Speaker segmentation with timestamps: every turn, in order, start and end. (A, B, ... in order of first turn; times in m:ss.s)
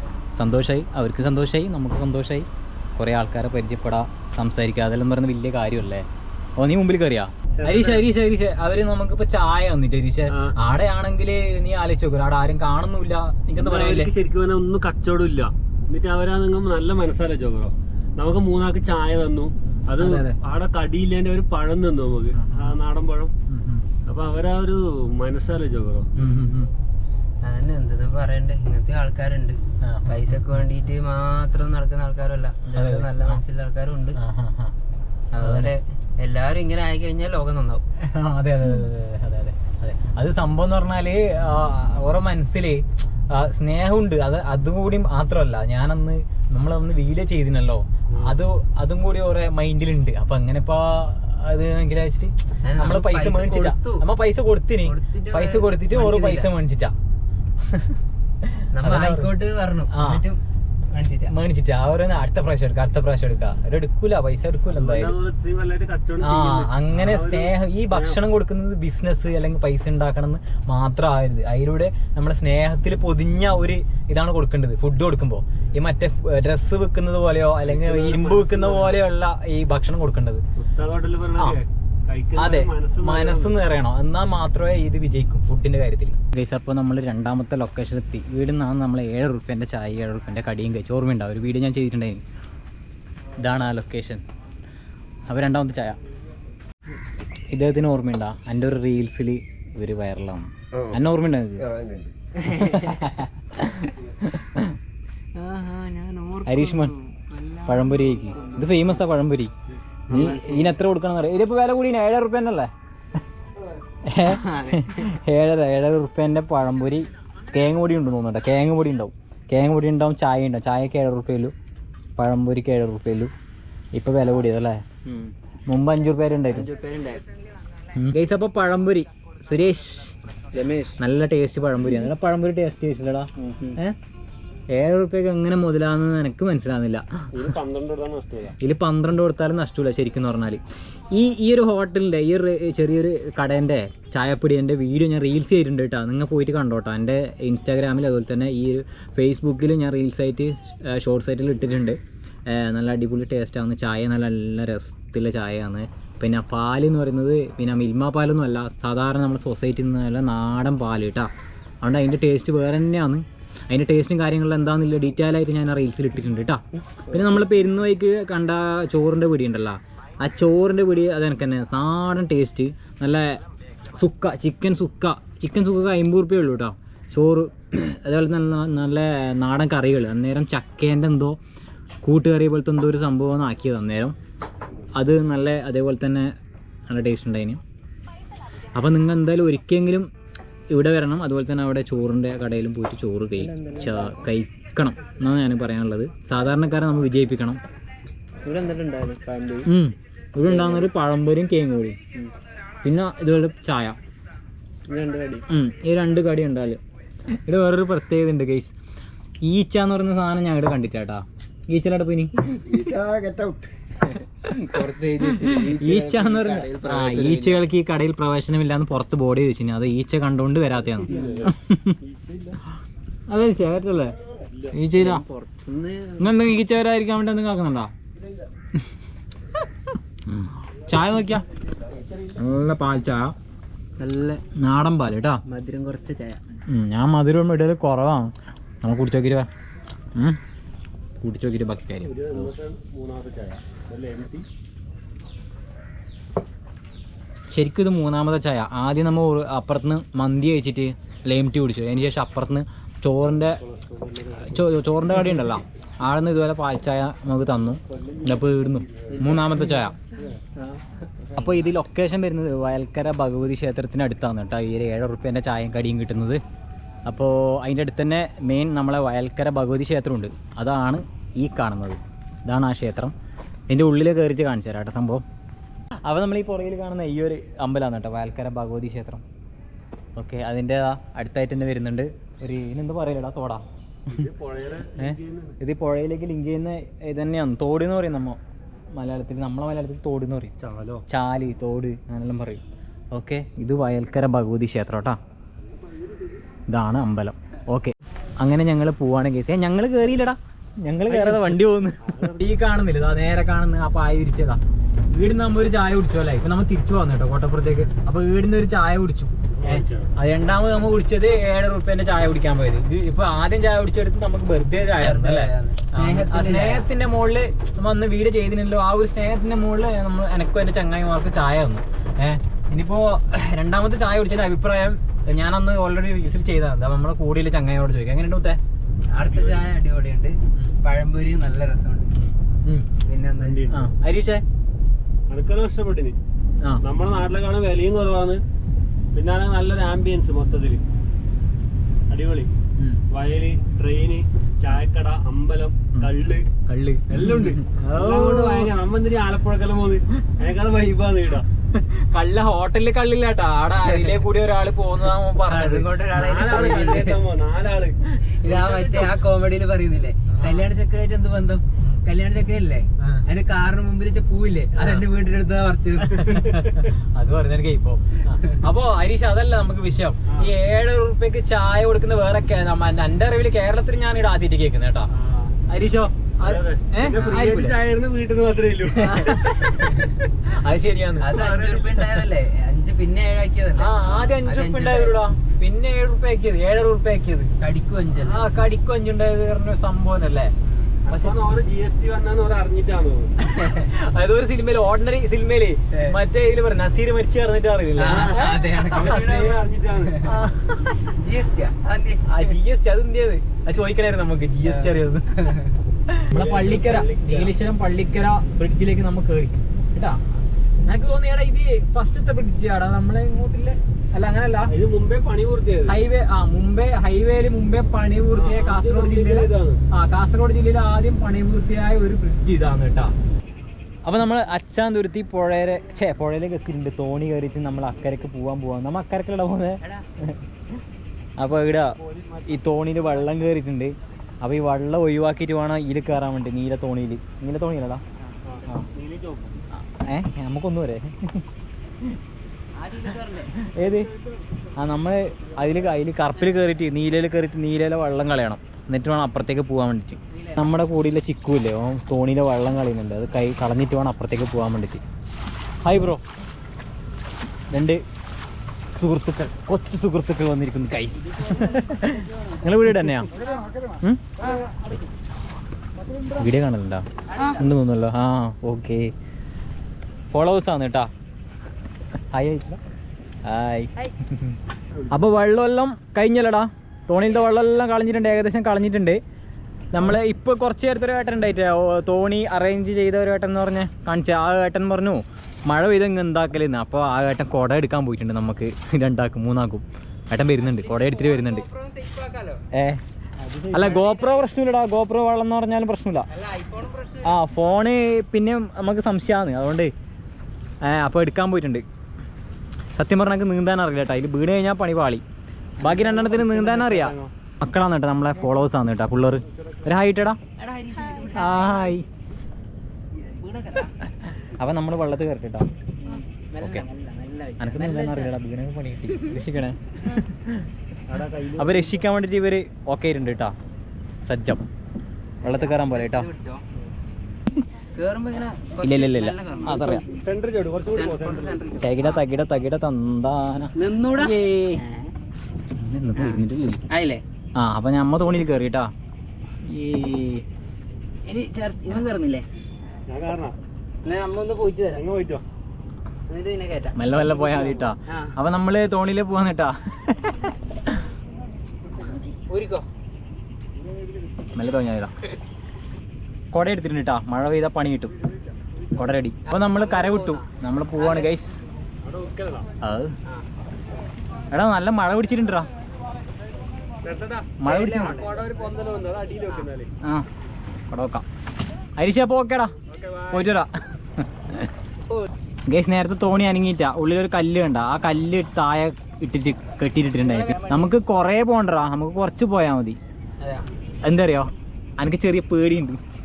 0:00.4-0:14.1 A
0:07.5-0:08.0 B
0:13.6-0:23.3 B
0:20.0-0:20.4 A
0:22.4-0:22.8 A
0:23.5-0:23.9 A
0:24.0-0:26.4 B
0:26.2-0:26.7 A
0:27.4-0:34.2 C
0:29.8-0:30.4 A
0:32.7-0:33.4 A
0:34.2-0:34.7 A
0:35.3-0:37.8 C
0:35.4-0:35.7 A
0:38.0-0:56.9 A
0:48.1-0:48.4 B
0:52.6-0:54.0 C
0:54.8-0:56.5 C
0:57.6-0:59.3 A
0:58.7-1:00.4 C
0:59.9-1:00.2 A
1:00.9-1:01.3 C
1:01.3-1:05.2 A
1:04.7-1:08.2 B
1:06.2-1:20.4 A
1:17.6-1:19.0 B
1:20.6-1:23.5 B
1:22.4-1:32.2 A
1:33.4-1:34.2 A
1:35.3-1:36.0 A
1:37.5-1:41.7 A
1:42.4-1:43.0 C
1:42.5-1:44.8 A
1:45.3-1:49.0 C
1:46.4-1:46.9 A
1:47.6-1:49.5 A
1:50.1-1:50.4 B
1:50.1-1:52.7 A
1:50.1-1:50.8 C
1:54.0-2:01.5 A
1:54.3-1:55.1 C
2:02.2-2:03.3 A
2:03.9-2:04.8 A
2:05.0-2:05.3 C
2:05.7-2:06.7 A
2:06.5-2:07.2 C
2:07.9-2:10.2 A
2:10.5-2:11.0 C
2:11.0-2:14.0 A
2:13.4-2:13.8 C
2:14.7-2:17.3 A
2:17.3-2:18.6 B
2:18.6-2:20.6 A
2:21.1-2:41.3 A
2:41.8-2:53.4 A
2:47.1-2:47.4 C
2:54.0-3:01.4 A
3:02.0-3:04.2 A
3:04.9-3:06.3 A
3:06.9-3:07.6 A
3:08.8-3:10.1 A
3:10.7-3:17.6 A
3:13.4-3:14.2 C
3:18.4-3:19.7 C
3:19.6-3:22.0 A
3:20.4-3:20.9 C
3:22.8-3:24.0 A
3:24.9-3:25.4 C
3:25.5-3:26.8 A
3:27.4-3:28.7 A
3:29.4-3:33.0 A
3:32.8-3:37.6 C
3:34.5-3:42.0 A
3:41.0-3:42.6 B
3:41.1-3:41.5 C
3:43.3-3:44.1 A
3:44.5-3:44.8 B
3:44.7-3:45.2 A
3:45.0-3:46.4 C
3:46.2-3:47.9 A
3:50.2-3:51.4 A
3:52.4-3:53.3 A
3:54.0-3:54.4 C
3:54.5-3:55.4 A
3:55.4-3:56.4 C
3:56.7-3:59.5 A
4:01.2-4:02.5 A
4:02.0-4:04.4 B
4:07.5-4:13.6 A
4:13.4-4:14.8 B
4:14.4-4:20.0 A
4:17.9-4:19.3 B
4:19.1-4:19.9 C
4:20.6-4:21.5 C
4:21.4-4:26.4 A
4:27.0-4:33.1 A
4:33.7-4:35.2 A
4:36.0-4:39.2 A
4:40.2-4:44.3 A
4:44.1-4:45.6 B
4:45.0-4:48.4 A
4:48.9-4:50.5 A
4:50.6-4:51.0 B
4:51.1-4:55.2 A
4:55.8-4:56.4 B
4:56.7-5:04.6 A
5:01.1-5:02.5 B
5:05.1-5:28.6 A
5:09.5-5:10.1 B
5:15.0-5:16.8 C
5:29.1-5:32.1 C
5:29.3-5:29.7 B
5:32.2-5:32.9 A
5:33.0-5:33.7 C
5:33.4-5:33.9 B
5:33.7-5:34.4 A
5:35.3-5:36.2 B
5:36.8-5:38.4 B
5:39.1-5:40.8 B
5:42.1-5:42.5 B
5:42.8-5:43.0 A
5:43.1-5:46.5 B
5:46.7-5:48.7 A
5:47.1-5:51.4 B
5:51.7-5:55.9 A
5:53.9-5:54.2 C
5:55.4-5:57.3 C
5:56.1-5:59.2 B
5:58.3-6:06.4 C
6:00.4-6:00.7 B
6:03.0-6:03.2 A
6:06.1-6:15.1 A
6:06.2-6:06.9 B
6:15.1-6:15.5 B
6:15.7-6:17.8 A
6:16.4-6:19.3 B
6:19.0-6:21.4 A
6:19.1-6:20.2 C
6:21.2-6:25.3 C
6:21.3-6:21.9 B
6:23.8-6:27.5 A
6:27.6-6:28.5 C
6:28.2-6:30.5 A
6:30.6-6:31.0 C
6:31.0-6:33.3 B
6:31.1-6:31.6 A
6:33.4-6:39.5 A
6:38.0-6:39.5 C
6:38.1-6:40.2 B
6:40.2-6:41.1 A
6:41.1-6:42.5 C
6:42.3-6:45.3 A
6:44.6-6:45.8 C
6:46.1-6:50.2 A
6:46.3-6:47.5 B
6:50.8-6:54.7 A
6:54.7-6:56.0 B
6:55.9-7:03.1 A
6:58.3-6:59.8 B
7:04.0-7:10.4 A
7:11.4-7:18.0 A
7:12.0-7:13.2 B
7:18.2-7:18.7 C
7:18.4-7:19.5 B
7:19.7-7:21.4 A
7:22.8-7:23.5 C
7:23.5-7:24.1 A
7:24.8-7:35.0 A
7:30.3-7:30.6 C
7:35.8-7:36.2 A
7:37.7-7:38.0 A
7:39.0-7:43.3 A
7:43.9-7:45.0 A
7:46.3-7:49.1 A
7:47.3-7:47.6 C
7:50.3-7:51.1 A
7:52.3-7:52.8 A
7:53.4-7:54.6 A
7:55.1-7:59.2 A
7:57.3-7:57.7 C
7:59.9-8:11.6 A
8:10.6-8:12.6 C
8:12.7-8:13.0 A
8:13.6-8:14.5 C
8:13.7-8:16.3 A
8:16.3-8:17.4 C
8:17.2-8:19.9 A
8:20.8-8:21.8 A
8:22.9-8:25.2 A
8:25.8-8:30.4 A
8:25.8-8:27.3 B
8:30.6-8:32.0 C
8:31.3-8:32.0 A
8:33.2-8:33.9 C
8:34.2-8:35.7 A
8:36.0-8:38.3 C
8:36.6-8:36.8 A
8:37.6-8:40.7 A
8:41.1-8:42.0 B
8:41.6-8:43.5 A
8:44.2-8:44.6 A
8:45.4-8:46.3 A
8:45.4-8:46.9 C
8:47.9-8:50.0 C
8:48.8-8:50.0 A
8:50.1-8:51.6 B
8:50.9-8:52.2 C
8:51.8-8:54.8 A
8:53.7-8:55.1 C
8:55.8-8:56.8 A
8:56.2-8:57.2 C
8:57.6-8:58.9 A
8:59.6-9:00.4 A
9:01.2-9:02.4 C
9:03.1-9:03.5 B
9:04.0-9:05.0 C
9:04.9-9:05.4 B
9:06.3-9:07.0 C
9:07.0-9:11.0 A
9:07.1-9:07.9 B
9:08.1-9:08.3 C
9:12.1-9:12.8 C
9:14.5-9:15.1 A
9:16.5-9:18.1 A
9:19.0-9:21.6 A
9:19.4-9:21.3 C
9:22.0-9:22.7 B
9:22.8-9:23.1 A
9:24.5-9:25.7 A
9:27.0-9:29.9 B
9:27.6-9:28.2 A
9:27.6-9:28.4 C
9:30.9-9:31.2 A
9:32.0-9:32.7 A
9:32.9-9:33.5 B
9:33.3-9:34.7 A
9:35.1-9:35.3 C
9:35.7-9:43.0 A
9:40.2-9:40.9 C
9:43.4-9:43.6 C
9:44.0-9:46.0 A